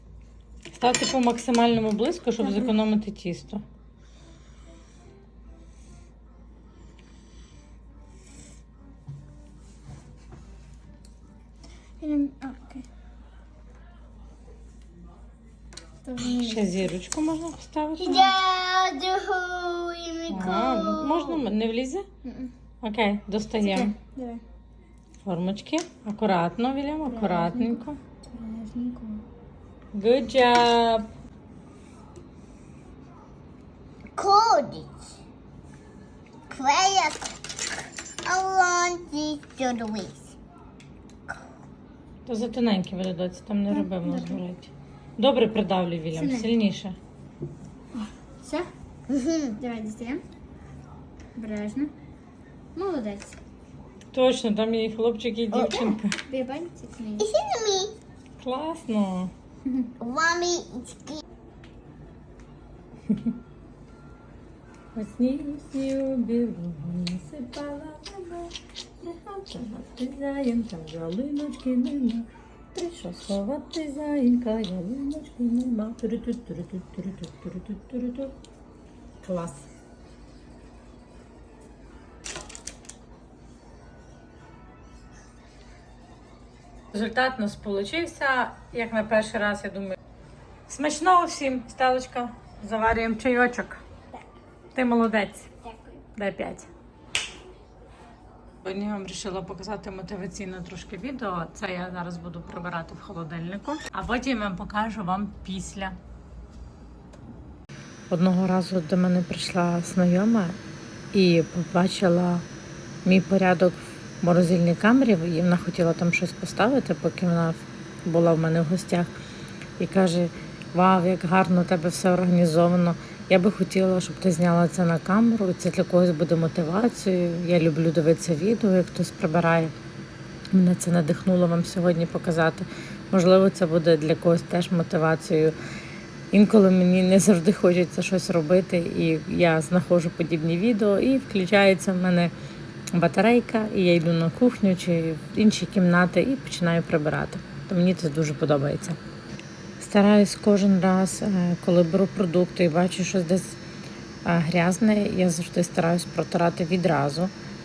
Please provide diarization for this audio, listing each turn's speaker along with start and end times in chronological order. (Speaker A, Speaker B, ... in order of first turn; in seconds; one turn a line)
Speaker A: 0.7-3.6
Speaker B: 12.0-12.9
Speaker B: 16.1-16.9
Speaker A: 16.2-18.3
Speaker C: 18.0-21.3
Speaker A: 20.3-22.1
Speaker B: 20.4-21.0
Speaker B: 22.2-22.5
Speaker A: 22.8-23.9
Speaker B: 23.6-24.4
Speaker A: 25.2-28.0
Speaker B: 27.1-29.2
Speaker A: 29.9-31.1
Speaker C: 34.1-35.1
Speaker C: 36.5-37.4
Speaker C: 38.2-40.4
Speaker A: 42.3-47.0
Speaker B: 43.7-44.4
Speaker B: 46.1-46.5
Speaker B: 47.9-48.7
Speaker C: 49.1-49.6
Speaker B: 49.6-50.2
Speaker B: 51.4-51.9
Speaker B: 52.7-53.4
Speaker A: 54.1-56.2
Speaker C: 55.5-56.0
Speaker B: 56.3-57.3
Speaker C: 57.2-58.0
Speaker A: 58.4-59.3
Speaker B: 59.7-59.9
Speaker C: 60.0-61.2
Speaker A: 65.0-78.3
Speaker A: 79.2-79.7
Speaker A: 86.9-90.0
Speaker A: 90.7-93.8
Speaker A: 94.8-95.6
Speaker A: 96.2-96.7
Speaker A: 98.6-106.0
Speaker A: 108.1-110.6
Speaker A: 111.1-112.5
Speaker A: 113.0-119.1
Speaker A: 119.8-129.7
Speaker A: 130.5-135.6
Speaker A: 136.3-142.3
Speaker A: 142.9-149.0
Speaker A: 149.8-153.6
Speaker A: 154.2-157.3